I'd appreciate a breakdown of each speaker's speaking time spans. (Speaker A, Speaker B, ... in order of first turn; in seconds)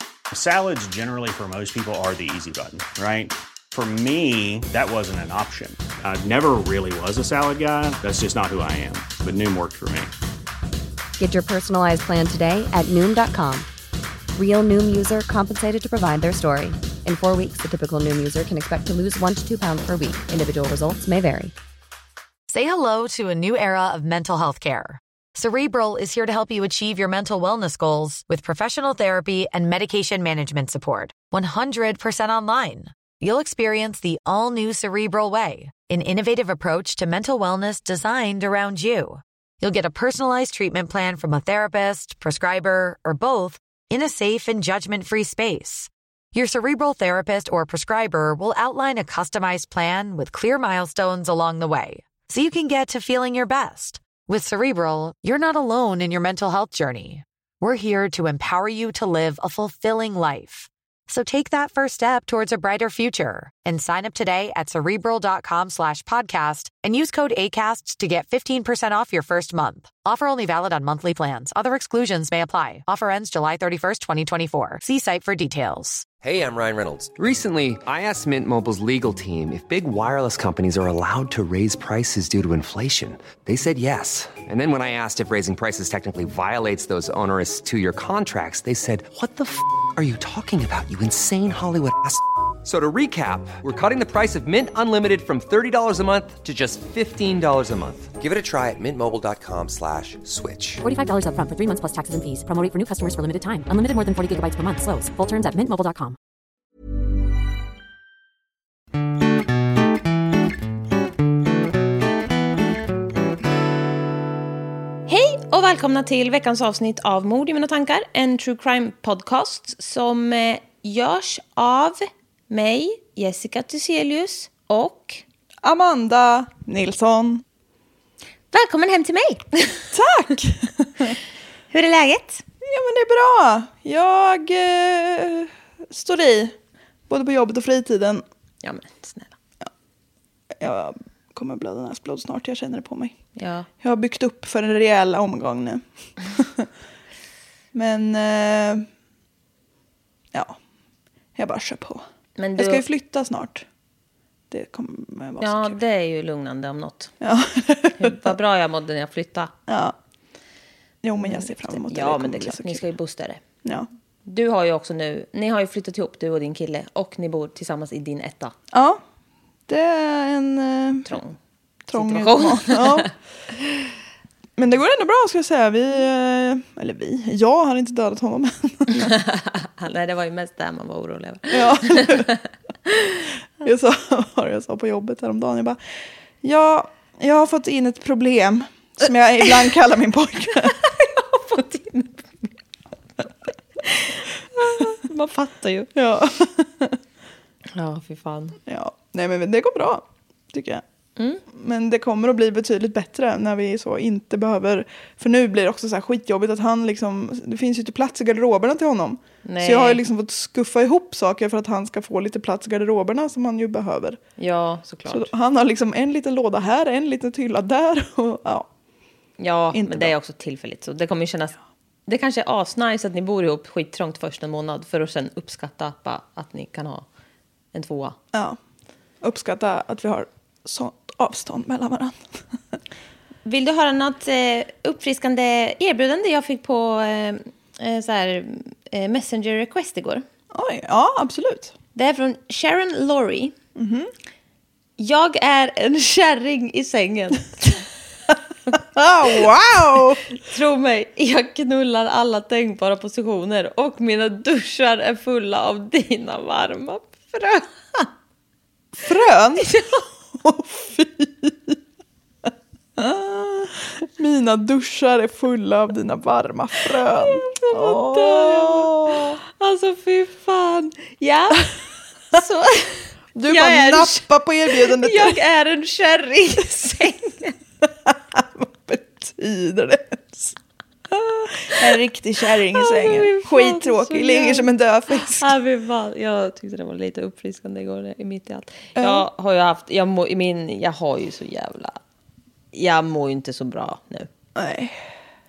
Speaker A: 0.3-10.1
Speaker B: 11.2-13.7, 14.3-21.5
Speaker C: 22.5-76.1
Speaker D: 76.2-100.8
Speaker E: 100.8-106.2
Speaker F: 115.1-125.2, 128.5-129.9, 131.7-132.4, 138.6-139.3, 143.4-143.7, 152.4-152.8, 155.4-157.1, 158.0-159.5, 161.2-163.4, 164.3-168.5, 171.1-171.4, 171.9-173.1, 179.0-183.3, 190.6-192.5, 193.8-195.9, 197.7-198.6, 201.2-201.4, 209.4-210.0, 214.4-215.3, 219.4-227.1, 227.7-228.2, 233.4-240.2, 241.9-243.5, 245.0-258.1, 259.6-260.0, 267.0-271.8, 272.3-277.6, 281.7-282.0, 282.6-292.0, 292.7-294.3
Speaker G: 125.6-127.4, 129.9-131.2, 132.6-136.6, 137.1-138.2, 140.5-143.2, 143.8-146.7, 147.7-148.9, 150.3-150.6, 151.3-152.1, 152.6-153.7, 154.5-155.8, 157.2-158.3, 159.7-160.0, 161.0-162.8, 163.6-163.9, 168.7-169.0, 169.7-171.2, 171.9-173.1, 174.6-179.2, 181.5-182.3, 183.6-190.8, 195.9-197.0, 198.7-200.8, 201.5-214.2, 215.1-218.7, 219.7-220.1, 228.3-228.6, 229.2-232.8, 240.5-241.8, 243.8-244.1, 249.0-250.3, 258.9-261.8, 263.0-269.4, 273.4-275.4, 277.8-280.6, 281.1-285.5, 289.0-289.3, 294.6-295.1